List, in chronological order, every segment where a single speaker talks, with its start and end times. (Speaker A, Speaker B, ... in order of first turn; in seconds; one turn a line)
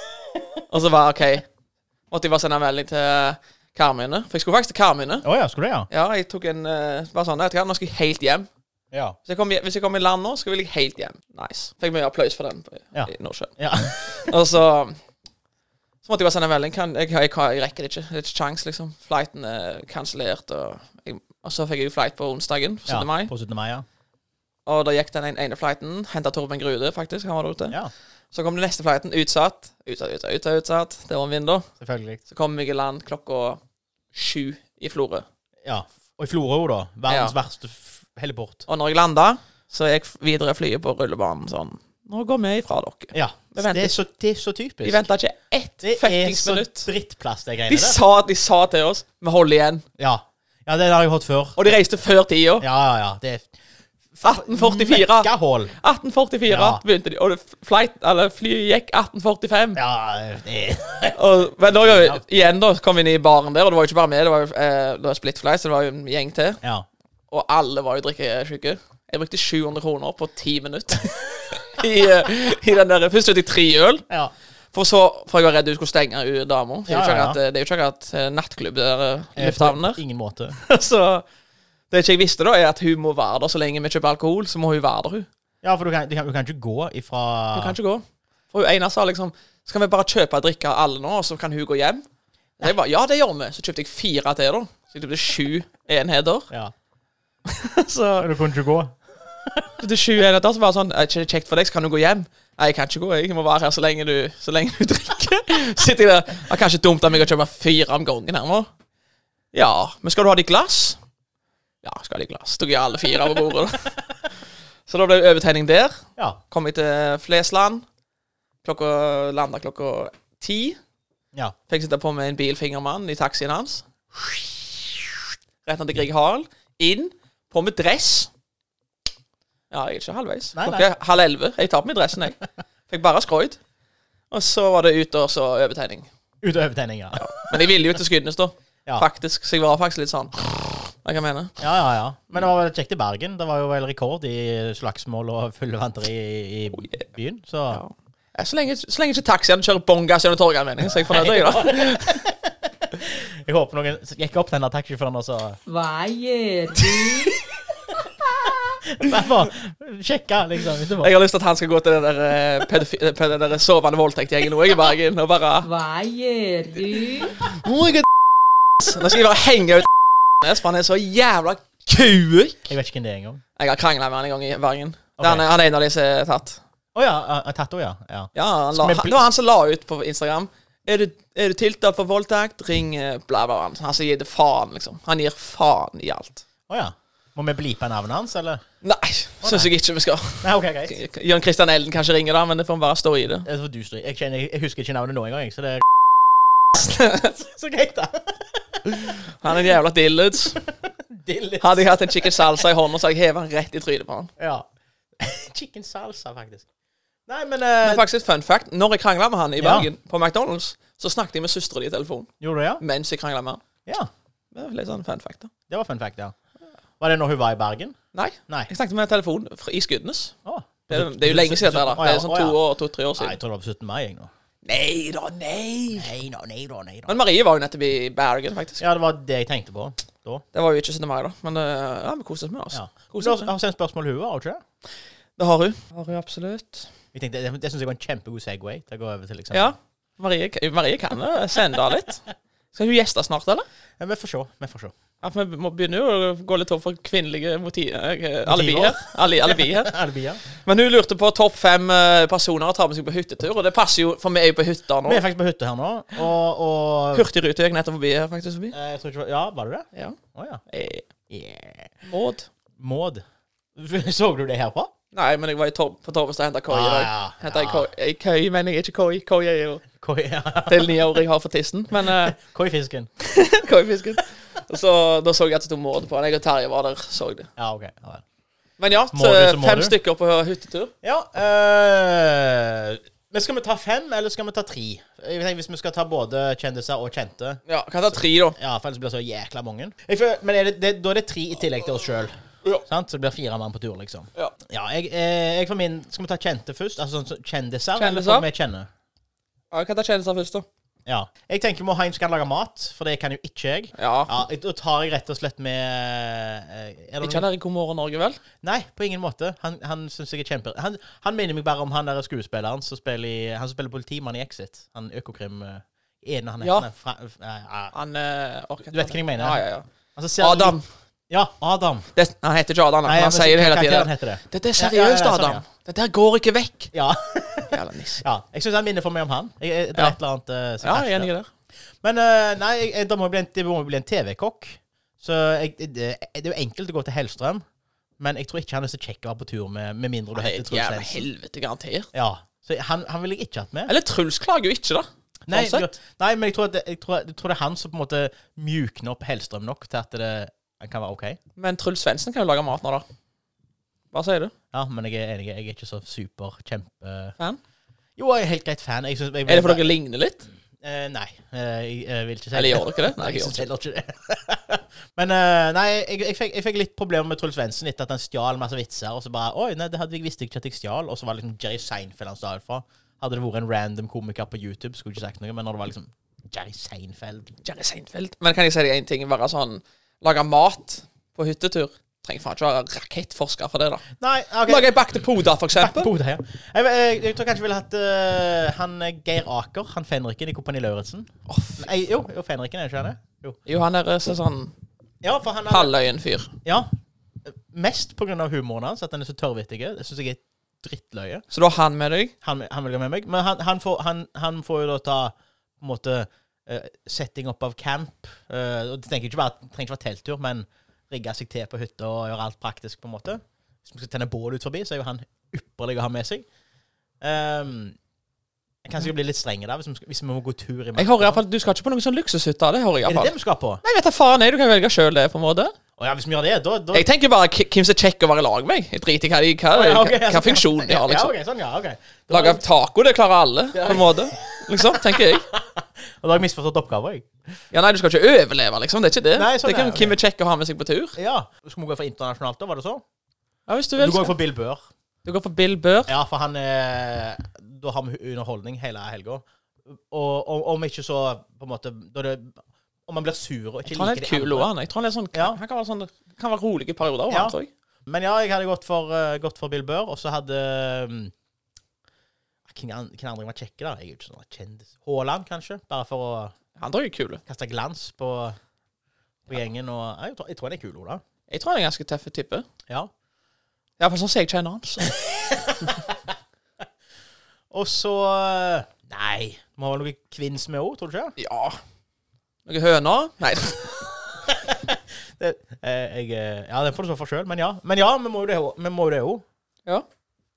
Speaker A: 0.7-1.4
Speaker A: 2.1-5.2
Speaker B: 5.2-5.9
Speaker A: 5.9-8.5
Speaker B: 8.9-9.2
Speaker A: 9.2-15.0
Speaker B: 12.9-14.3
Speaker A: 16.0-23.3
Speaker B: 22.9-23.8
Speaker A: 24.6-27.8
Speaker A: 28.3-31.7
Speaker B: 31.8-32.2
Speaker A: 32.3-33.6
Speaker A: 34.1-35.2
Speaker B: 35.6-38.6
Speaker A: 37.1-37.3
Speaker A: 38.7-43.9
Speaker B: 43.1-45.0
Speaker A: 44.8-46.9
Speaker B: 45.8-48.0
Speaker A: 47.7-49.8
Speaker B: 50.0-51.7
Speaker A: 51.5-52.6
Speaker B: 52.6-53.5
Speaker B: 54.1-55.7
Speaker A: 54.2-59.8
Speaker B: 56.5-56.8
Speaker B: 59.7-62.2
Speaker A: 61.1-66.6
Speaker B: 66.6-66.9
Speaker A: 67.3-74.0
Speaker A: 74.7-80.0
Speaker B: 76.9-77.4
Speaker B: 79.3-80.5
Speaker A: 80.5-81.2
Speaker A: 81.9-85.3
Speaker B: 85.6-87.8
Speaker A: 87.5-92.0
Speaker A: 92.6-96.5
Speaker A: 97.5-98.3
Speaker B: 98.2-99.7
Speaker A: 99.8-108.7
Speaker A: 109.5-111.0
Speaker A: 111.8-113.9
Speaker A: 114.9-117.8
Speaker A: 118.6-120.8
Speaker A: 121.7-123.8
Speaker A: 125.6-128.3
Speaker A: 129.7-133.6
Speaker B: 130.5-130.9
Speaker A: 134.3-136.1
Speaker B: 136.4-137.6
Speaker A: 137.2-141.5
Speaker B: 141.6-147.8
Speaker A: 147.7-152.3
Speaker B: 151.1-155.6
Speaker C: 155.7-157.4
Speaker B: 158.9-161.1
Speaker A: 161.0-165.7
Speaker C: 165.6-167.3
Speaker A: 167.4-168.0
Speaker A: 168.8-169.9
Speaker A: 170.4-172.7
Speaker B: 172.6-173.4
Speaker A: 173.6-176.6
Speaker B: 175.2-175.4
Speaker B: 176.9-179.2
Speaker A: 178.3-186.4
Speaker B: 186.7-188.6
Speaker A: 188.8-193.4
Speaker B: 189.4-189.7
Speaker B: 190.4-190.9
Speaker B: 193.4-195.8
Speaker A: 196.8-197.3
Speaker B: 197.1-199.3
Speaker A: 199.3-200.6
Speaker B: 200.8-202.6
Speaker A: 201.6-204.3
Speaker B: 204.4-204.7
Speaker B: 205.2-206.7
Speaker B: 207.3-208.1
Speaker A: 207.8-213.6
Speaker B: 209.6-209.9
Speaker B: 212.4-212.8
Speaker A: 214.5-215.5
Speaker B: 215.7-216.3
Speaker B: 217.0-217.9
Speaker A: 218.1-220.3
Speaker B: 220.4-222.6
Speaker A: 220.9-223.4
Speaker B: 223.2-224.3
Speaker A: 224.6-226.1
Speaker B: 226.0-227.2
Speaker A: 227.1-228.8
Speaker B: 228.8-230.4
Speaker A: 230.5-233.5
Speaker B: 232.7-234.6
Speaker A: 235.4-236.9
Speaker B: 237.1-239.7
Speaker A: 239.5-243.7
Speaker B: 244.0-244.9
Speaker A: 245.2-249.9
Speaker B: 248.4-250.4
Speaker A: 250.6-255.2
Speaker B: 255.0-257.3
Speaker A: 257.1-258.7
Speaker B: 258.7-260.6
Speaker A: 260.7-261.0
Speaker B: 261.3-261.9
Speaker A: 262.0-262.5
Speaker B: 262.8-263.2
Speaker B: 263.8-264.9
Speaker A: 265.1-269.8
Speaker B: 266.7-267.9
Speaker B: 269.9-271.0
Speaker A: 270.7-272.4
Speaker B: 271.9-273.1
Speaker A: 273.2-277.5
Speaker B: 277.6-278.2
Speaker A: 278.8-280.9
Speaker B: 279.1-279.9
Speaker B: 281.0-287.6
Speaker A: 287.7-288.6
Speaker B: 288.1-298.9
Speaker A: 298.0-298.4
Speaker A: 299.7-300.6
Speaker B: 301.1-307.4
Speaker A: 304.0-304.4
Speaker A: 307.2-308.4
Speaker B: 308.6-317.9
Speaker A: 316.6-316.9
Speaker A: 317.9-319.8
Speaker B: 318.9-319.6
Speaker B: 320.1-320.8
Speaker A: 320.4-320.9
Speaker B: 321.3-322.1
Speaker A: 322.1-326.9
Speaker B: 323.0-325.6
Speaker B: 326.9-331.3
Speaker A: 327.7-328.2
Speaker A: 330.8-331.5
Speaker B: 332.0-337.6
Speaker B: 338.2-341.3
Speaker A: 340.4-342.1
Speaker B: 342.1-343.9
Speaker A: 343.9-345.9
Speaker B: 345.5-351.4
Speaker A: 351.6-353.0
Speaker A: 354.1-354.5
Speaker B: 354.7-357.3
Speaker B: 358.2-359.9
Speaker A: 359.4-360.5
Speaker B: 360.8-377.6
Speaker A: 362.5-363.6
Speaker A: 377.6-384.0
Speaker B: 384.2-384.9
Speaker A: 384.6-386.1
Speaker B: 385.7-393.6
Speaker A: 391.5-391.9
Speaker A: 393.6-394.7
Speaker B: 395.2-395.9
Speaker A: 395.7-396.5
Speaker B: 396.6-396.9
Speaker B: 397.4-401.4
Speaker A: 401.5-402.3
Speaker B: 402.4-416.4
Speaker B: 417.2-417.9
Speaker B: 418.8-421.4
Speaker A: 420.9-425.7
Speaker B: 423.1-423.8
Speaker B: 426.0-427.1
Speaker A: 426.9-431.3
Speaker B: 429.7-432.6
Speaker A: 432.3-435.5
Speaker B: 433.7-437.3
Speaker A: 437.7-441.2
Speaker B: 439.3-440.2
Speaker B: 441.1-443.0
Speaker A: 443.7-444.3
Speaker B: 444.0-444.8
Speaker A: 445.2-446.1
Speaker B: 446.1-454.7
Speaker A: 453.9-457.7
Speaker B: 455.3-455.6
Speaker B: 457.3-461.3
Speaker B: 462.7-466.5
Speaker A: 466.8-467.4
Speaker B: 467.4-468.6
Speaker B: 469.5-471.2
Speaker A: 471.5-472.6
Speaker A: 474.0-475.1
Speaker B: 475.1-476.1
Speaker B: 477.7-481.3
Speaker A: 481.4-481.8
Speaker A: 482.6-484.0
Speaker B: 484.4-489.4